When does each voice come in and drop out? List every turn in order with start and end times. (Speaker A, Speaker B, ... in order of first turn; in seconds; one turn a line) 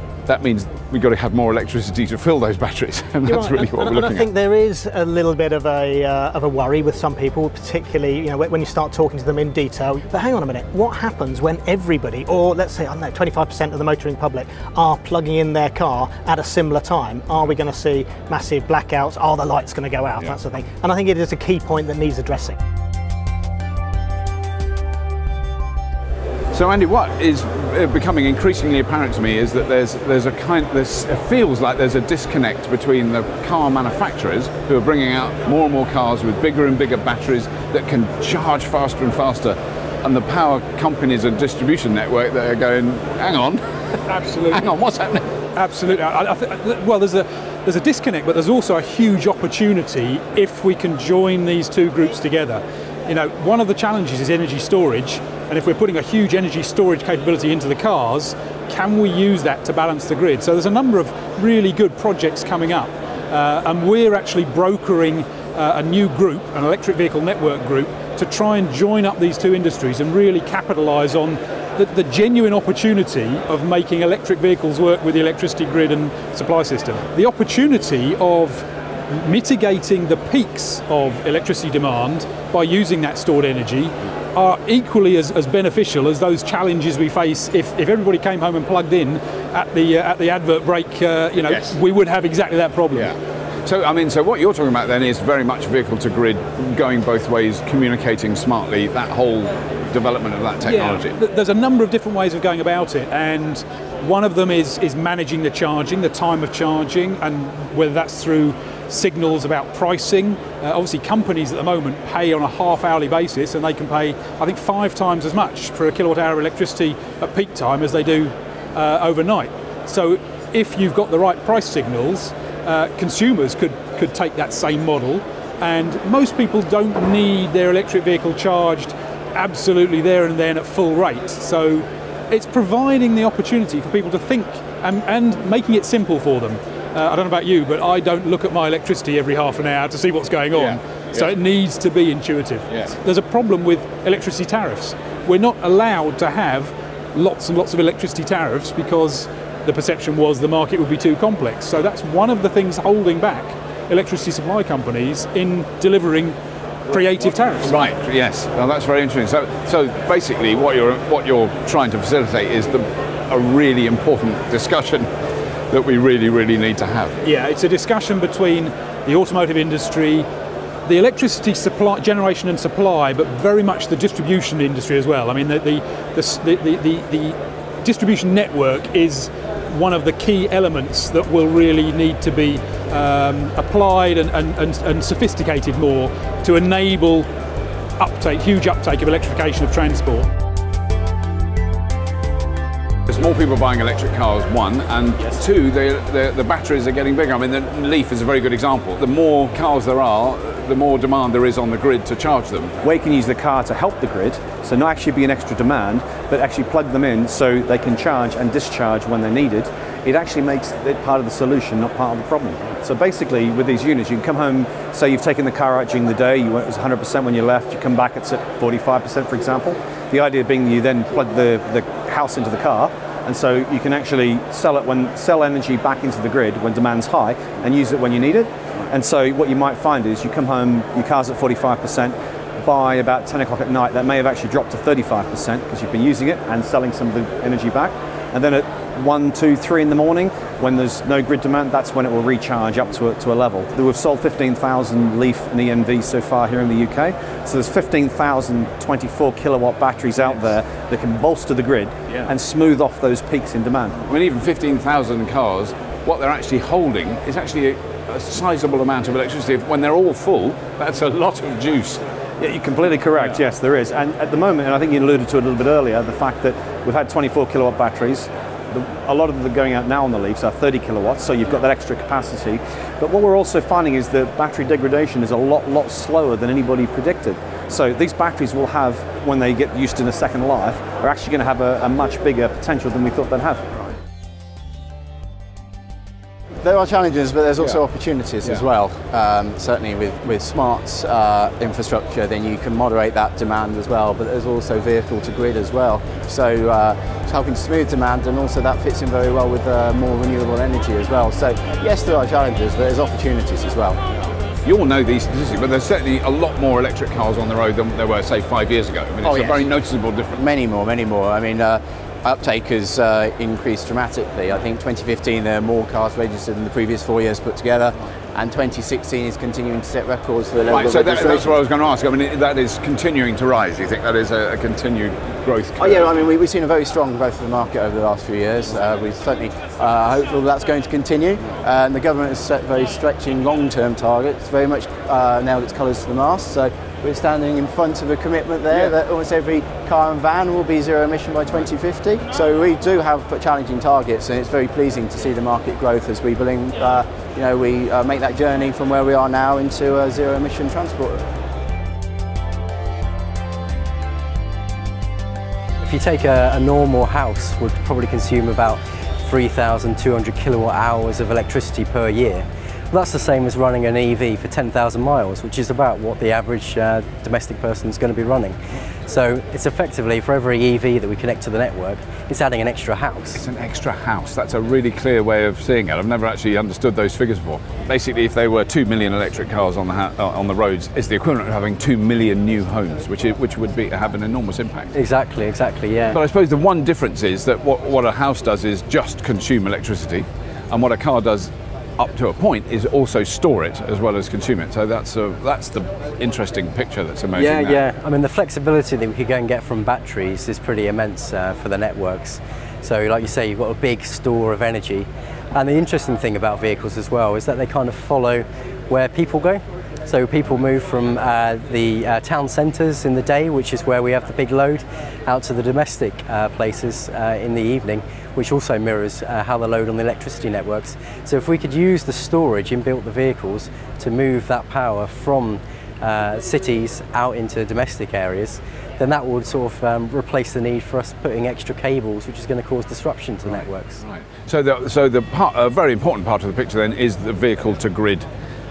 Speaker A: 0.3-4.3
Speaker B: 3.2-22.6
Speaker A: 26.5-43.6
Speaker C: 44.1-44.6
Speaker A: 44.5-45.2
Speaker C: 45.6-93.1
Speaker A: 91.4-91.8
Speaker A: 92.9-101.2
Speaker C: 100.7-156.4
Speaker A: 140.5-141.3
Speaker C: 156.9-157.8
Speaker A: 157.5-165.1
Speaker A: 165.7-167.2
Speaker C: 167.2-170.3
Speaker C: 170.9-187.3
Speaker C: 188.0-190.3
Speaker A: 193.1-202.8
Speaker D: 202.8-254.0
Speaker A: 254.1-262.0
Speaker D: 262.4-283.6
Speaker E: 286.6-304.3
Speaker A: 304.6-310.4
Speaker E: 309.2-309.6
Speaker E: 310.4-321.5
Speaker A: 320.7-326.1
Speaker E: 325.8-351.2
Speaker F: 355.8-368.6
Speaker F: 369.1-373.4
Speaker A: 373.4-384.9
Speaker F: 384.9-386.2
Speaker A: 386.1-397.8
Speaker F: 397.3-434.0
Speaker A: 433.5-438.3